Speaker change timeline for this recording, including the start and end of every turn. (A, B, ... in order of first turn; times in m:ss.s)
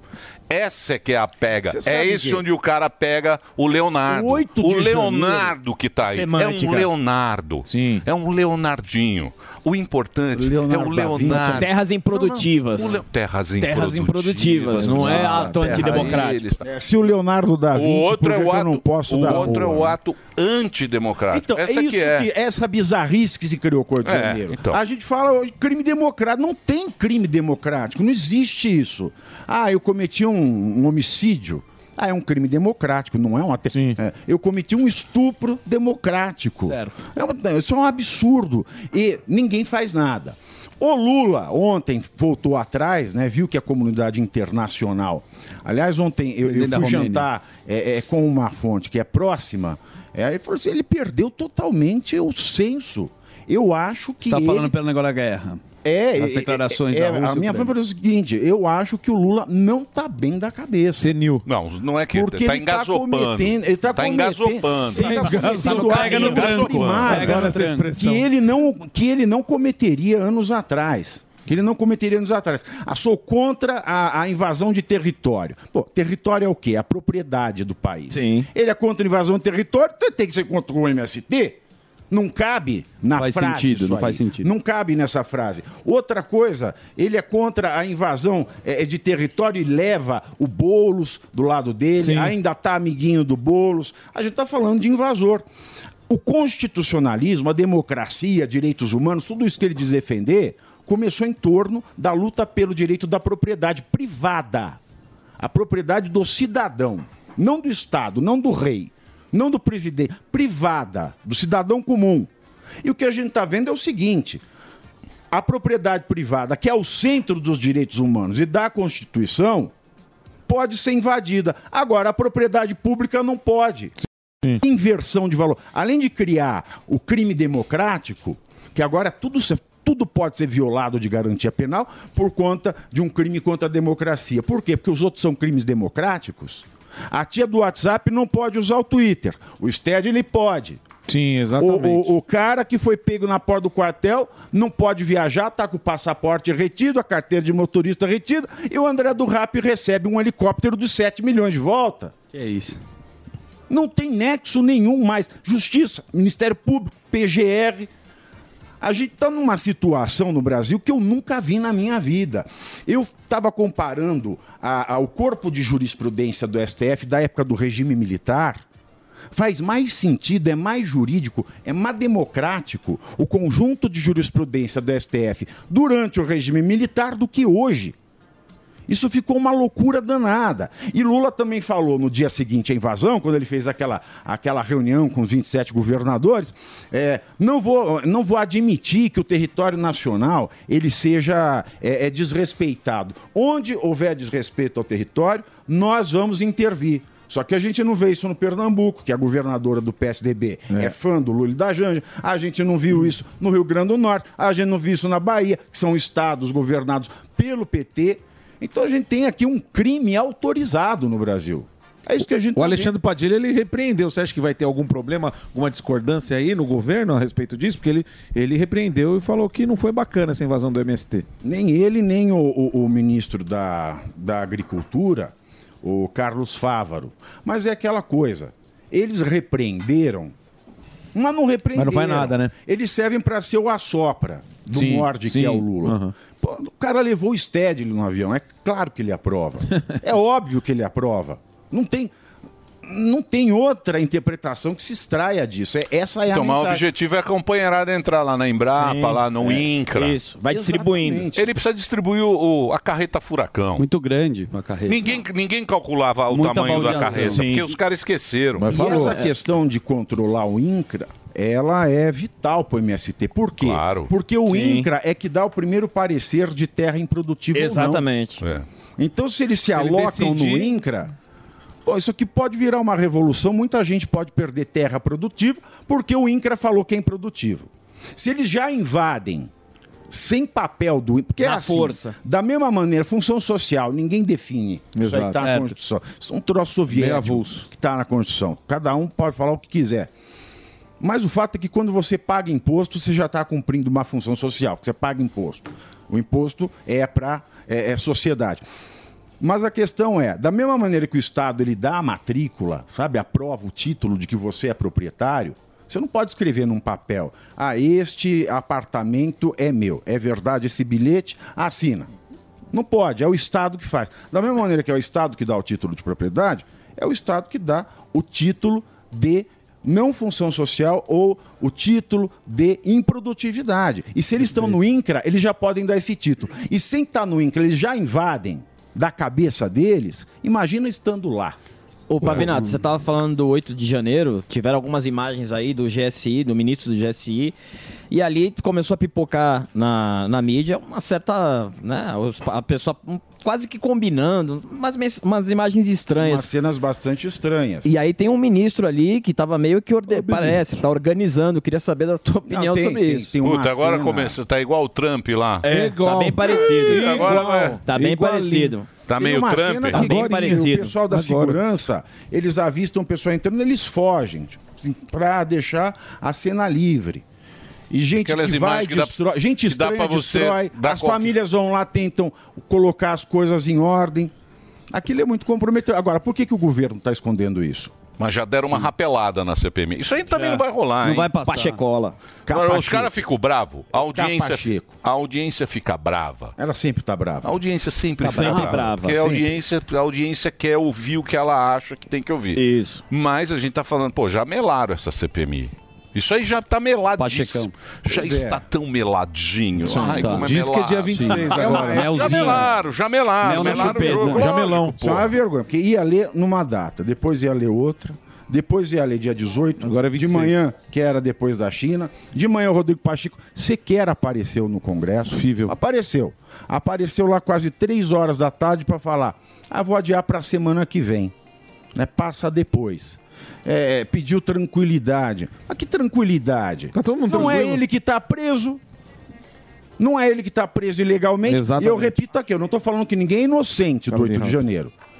0:00.5-0:16.7 A
0:01.6-0:02.4 B
0:04.1-0:05.6 B
0:06.0-0:06.9 C
0:07.7-0:08.0 D
0:10.3-0:11.7 B
0:11.5-0:13.0 C
0:13.6-0:16.5 C
0:14.8-0:16.1 E
0:14.8-0:20.0 B
0:15.0-0:15.3 D
0:17.7-0:22.3 A
0:21.3-0:54.7 B
0:24.0-0:24.8 A
0:33.7-0:34.0 D
0:36.6-0:37.0 E
0:46.4-0:47.3 E
0:54.2-0:55.6 E
0:55.8-1:01.1 B
0:56.2-0:57.7 E
1:01.0-1:01.4 D
1:01.4-1:07.5 A
1:02.1-1:21.6 B
1:05.0-1:07.9 E
1:05.0-1:08.3 D
1:18.1-1:18.4 C
1:22.1-1:35.5 B
1:23.1-1:24.5 E
1:32.0-1:32.3 E
1:36.1-1:44.8 B
1:45.4-1:52.3 B
1:52.8-1:54.4 B
1:55.3-1:59.7 B
2:00.5-2:03.9 B
2:04.6-2:20.8 B
2:21.1-2:22.1 D
2:21.6-2:32.1 B
2:32.3-2:32.8 E
2:33.7-2:37.9 B
2:38.8-2:48.6 B
2:49.3-2:57.9 B
2:58.9-3:32.9 B
3:32.5-3:41.3 D
3:41.4-3:50.3 B
3:51.1-4:02.1 B
3:51.7-3:52.5 D
3:54.7-3:56.1 D
4:02.8-4:06.8 B
4:06.3-4:10.2 A
4:08.7-4:09.3 C
4:09.4-4:09.7 B
4:09.9-4:11.3 C
4:10.4-4:11.6 B
4:11.3-4:13.8 A
4:13.8-4:15.1 E
4:14.9-4:19.1 A
4:16.3-4:17.6 E
4:18.6-4:19.1 D
4:18.6-4:28.0 B
4:23.6-4:24.1 A
4:24.5-4:24.8 C
4:27.5-4:28.4 C
4:28.4-4:28.6 A
4:29.0-4:31.1 B
4:29.7-4:30.7 D
4:31.8-4:39.5 B
4:40.1-4:50.1 B
4:41.4-4:42.1 C
4:44.9-4:45.5 D
4:45.4-4:45.7 E
4:46.9-4:47.7 D
4:51.0-4:58.6 B
4:59.4-5:12.1 B
5:12.7-5:31.6 B
5:32.1-5:37.5 C
5:38.1-5:46.5 C
5:46.1-5:47.9 B
5:47.8-5:53.3 C
5:50.1-5:50.8 D
5:52.4-5:54.4 B
5:53.4-5:55.7 A
5:55.6-5:58.8 D
5:55.7-5:57.2 C
5:56.8-5:57.8 A
5:57.2-5:57.5 B
5:57.8-5:58.9 C
5:59.0-6:00.1 A
5:59.1-6:07.2 B
5:59.9-6:00.9 C
6:00.0-6:01.6 D
6:07.9-6:14.3 B
6:08.2-6:11.3 A
6:14.9-6:18.0 B
6:18.2-6:21.3 A
6:20.3-6:21.8 E
6:21.4-6:22.2 C
6:22.5-6:23.1 B
6:22.5-6:26.5 A
6:23.9-6:24.9 B
6:26.6-6:27.5 B
6:27.4-6:45.3 A
6:28.2-6:29.3 E
6:28.2-6:29.3 C
6:32.5-6:33.0 C
6:37.2-6:37.7 E
6:38.0-6:38.6 B
6:39.9-6:40.6 E
6:40.0-6:42.2 D
6:41.1-6:42.8 E
6:41.4-6:42.7 B
6:43.4-6:44.5 E
6:43.6-6:45.2 D
6:43.6-7:01.3 B
6:49.8-6:50.6 D
6:55.3-6:55.8 D
7:01.9-7:08.8 B
7:06.9-7:07.8 D
7:10.0-7:14.9 B
7:11.5-7:12.2 D
7:14.1-7:14.6 D